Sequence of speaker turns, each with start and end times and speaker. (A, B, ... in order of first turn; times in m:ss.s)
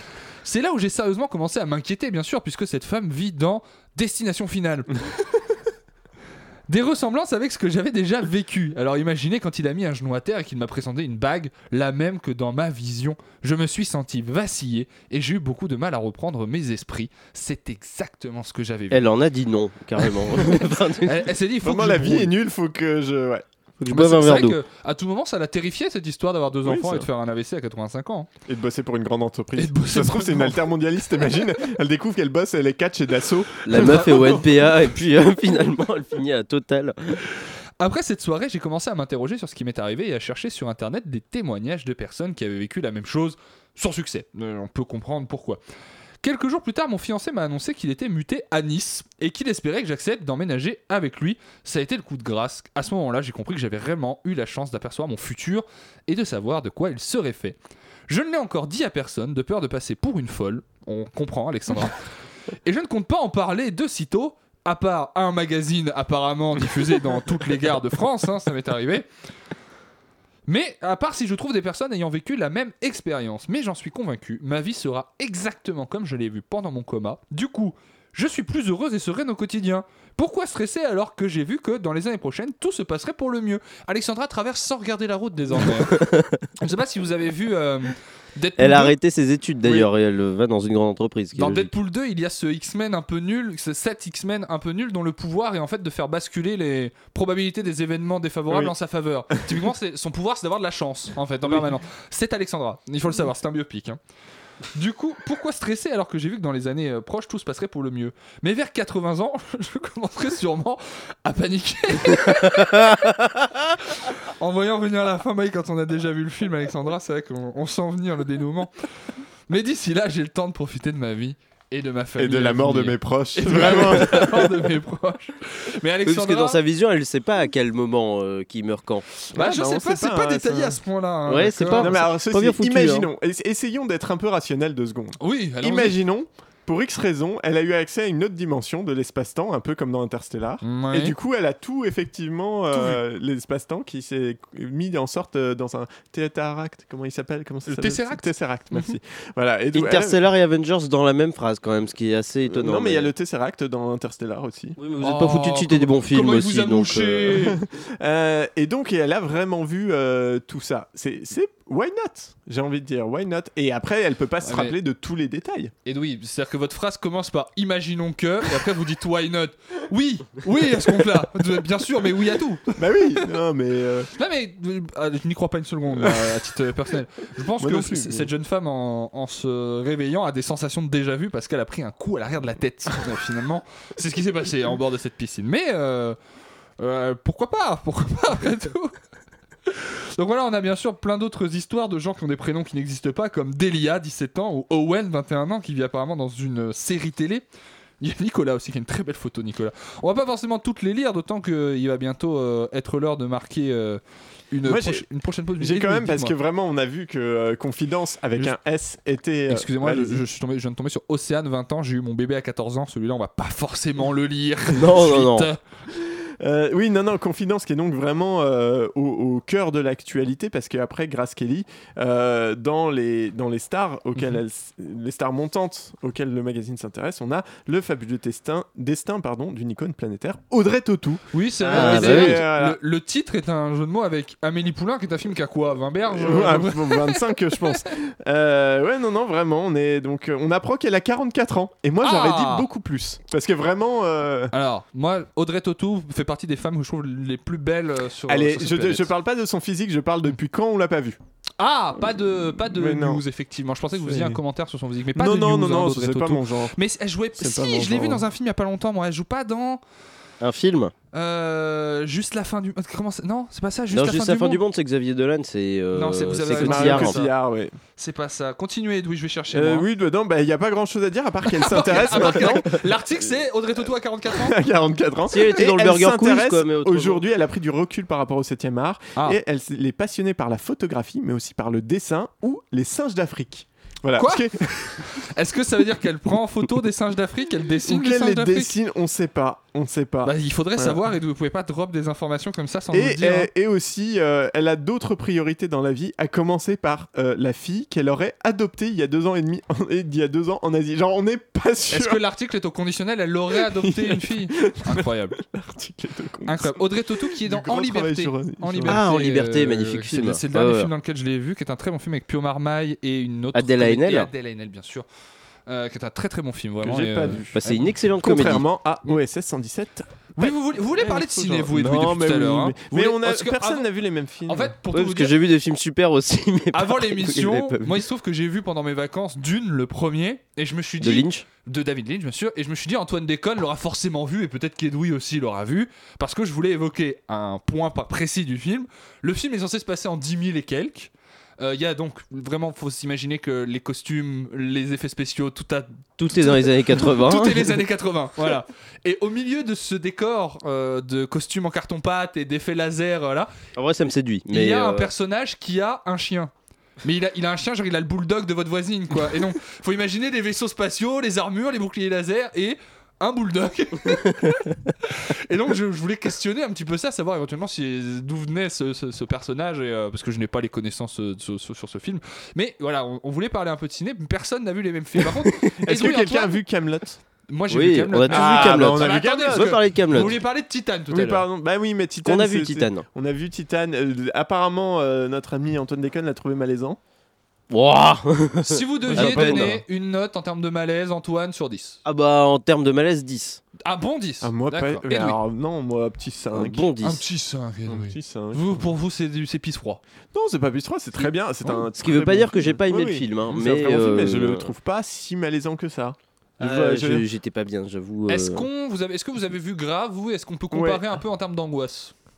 0:00.4-0:05.0 A
0:06.7-0:19.1 A
0:18.9-0:21.2 B
0:21.0-0:22.3 A
0:21.6-0:23.4 C
0:23.8-0:24.6 B
0:23.9-0:28.3 A
0:26.6-0:27.1 C
0:28.5-0:34.2 C
0:29.6-0:30.6 A
0:33.6-0:37.2 B
0:33.7-0:34.5 A
0:37.8-0:45.6 A
0:46.2-0:57.6 A
0:58.1-1:02.0 A
1:02.6-1:09.1 A
1:10.5-1:26.0 A
1:25.6-1:26.4 B
1:26.6-1:29.0 A
1:28.6-1:31.7 B
1:31.4-1:44.0 A
1:44.7-1:53.1 A
1:53.9-1:58.7 A
1:59.5-2:06.6 A
2:02.2-2:04.5 C
2:06.0-2:09.0 B
2:09.3-2:11.9 A
2:09.3-2:10.8 C
2:11.3-2:13.1 B
2:11.8-2:30.2 C
2:15.2-2:16.0 A
2:20.6-2:21.2 A
2:22.7-2:23.0 A
2:27.7-2:28.9 A
2:29.7-2:33.1 B
2:32.5-2:34.8 C
2:34.8-2:37.4 B
2:35.0-2:37.6 A
2:37.5-2:45.7 C
2:44.4-2:44.7 A
2:45.8-2:52.7 A
2:52.7-2:54.1 C
2:54.2-3:06.2 A
2:56.0-2:56.4 C
2:57.6-2:58.3 C
3:06.8-3:08.9 A
3:09.6-3:17.4 A
3:18.0-3:26.4 A
3:24.6-3:25.0 C
3:25.6-3:30.2 C
3:29.5-3:35.6 A
3:34.7-3:35.5 B
3:35.9-3:52.8 C
3:51.3-3:57.8 A
3:51.6-3:52.4 B
3:56.1-4:04.5 C
4:02.0-4:02.7 A
4:04.5-4:09.1 A
4:08.3-4:11.2 C
4:11.6-4:19.8 A
4:12.7-4:13.2 C
4:14.0-4:14.4 C
4:15.2-4:16.8 C
4:17.4-4:18.2 C
4:20.4-4:20.9 B
4:21.1-4:24.6 A
4:23.9-4:27.2 B
4:25.9-4:27.3 A
4:26.5-4:27.7 C
4:28.0-4:29.8 A
4:29.5-4:32.8 C
4:31.5-4:34.6 A
4:34.4-4:45.0 C
4:35.3-4:37.2 B
4:44.2-4:48.7 A
4:47.9-4:51.0 C
4:50.2-4:53.5 A
4:52.9-5:02.2 C
5:01.9-5:05.4 A
5:03.6-5:09.0 C
5:06.5-5:15.0 A
5:08.8-5:10.9 B
5:13.5-5:14.3 B
5:15.7-5:17.8 A
5:16.8-5:17.6 C
5:17.5-5:18.6 B
5:18.2-5:24.7 C
5:20.4-5:23.9 A
5:24.5-5:25.3 A
5:24.9-5:28.0 B
5:26.7-5:53.5 A
5:31.0-5:31.4 B
5:46.2-5:47.8 B
5:53.8-5:55.1 B
5:54.5-5:56.5 A
5:57.0-6:16.6 A
6:15.8-6:17.2 C
6:17.5-6:21.4 A
6:17.7-6:20.4 B
6:18.3-6:20.4 C
6:21.1-6:27.0 C
6:22.2-6:23.0 B
6:27.7-6:29.8 B
6:28.6-6:32.0 A
6:29.1-6:29.8 C
6:32.0-6:33.6 B
6:33.8-6:35.4 A
6:34.4-6:36.8 C
6:36.5-6:37.2 B
6:37.0-6:40.0 A
6:37.9-6:38.8 C
6:40.3-6:47.2 C
6:41.9-6:44.7 B
6:46.6-6:48.7 B
6:48.3-6:52.1 A
6:50.7-6:51.0 C